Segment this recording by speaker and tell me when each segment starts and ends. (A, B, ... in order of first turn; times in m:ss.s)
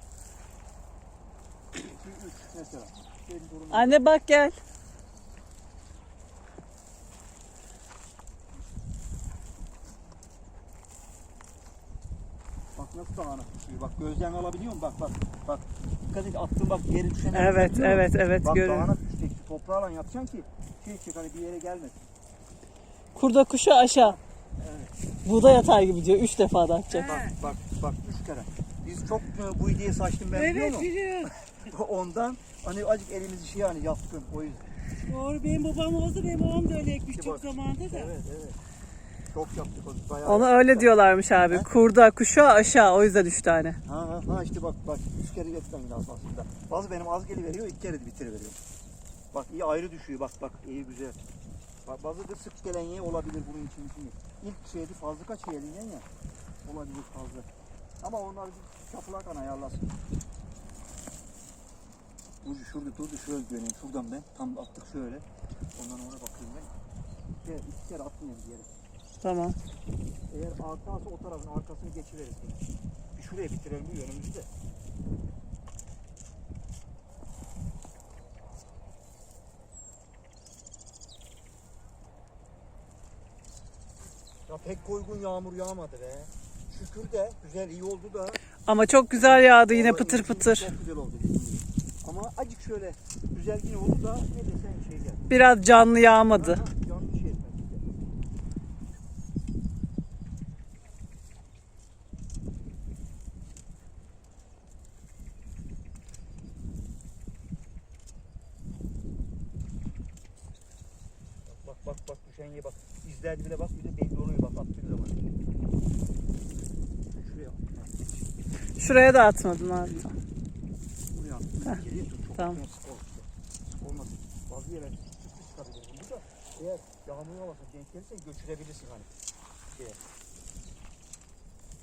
0:01.8-0:04.0 A
0:03.7-0:04.6 B
0:12.8-0:22.0 A
0:17.3-0:18.9 B
0:23.2-0:24.2 B
0:24.0-0:24.9 A
0:25.2-0:27.2 B
0:27.0-0:34.7 A
0:27.0-0:27.3 C
0:30.4-0:31.3 C
0:35.1-0:38.1 C
0:37.1-0:38.6 A
0:39.3-0:41.7 A
0:40.2-0:43.8 B
0:43.8-0:48.6 A
0:49.3-0:51.2 A
0:51.9-0:56.1 A
0:56.6-0:57.5 A
0:58.0-0:59.9 A
1:02.4-1:06.7 A
1:07.4-1:08.7 A
1:09.2-1:09.6 B
1:10.3-1:12.6 A
1:13.2-1:14.5 A
1:24.5-1:28.4 A
1:28.7-1:30.7 B
1:29.2-1:35.3 A
1:35.3-1:36.6 B
1:36.2-1:37.9 A
1:51.5-1:55.2 A
1:57.1-1:58.3 A
1:58.8-2:00.2 B
2:01.1-2:09.1 A
2:09.7-2:10.0 A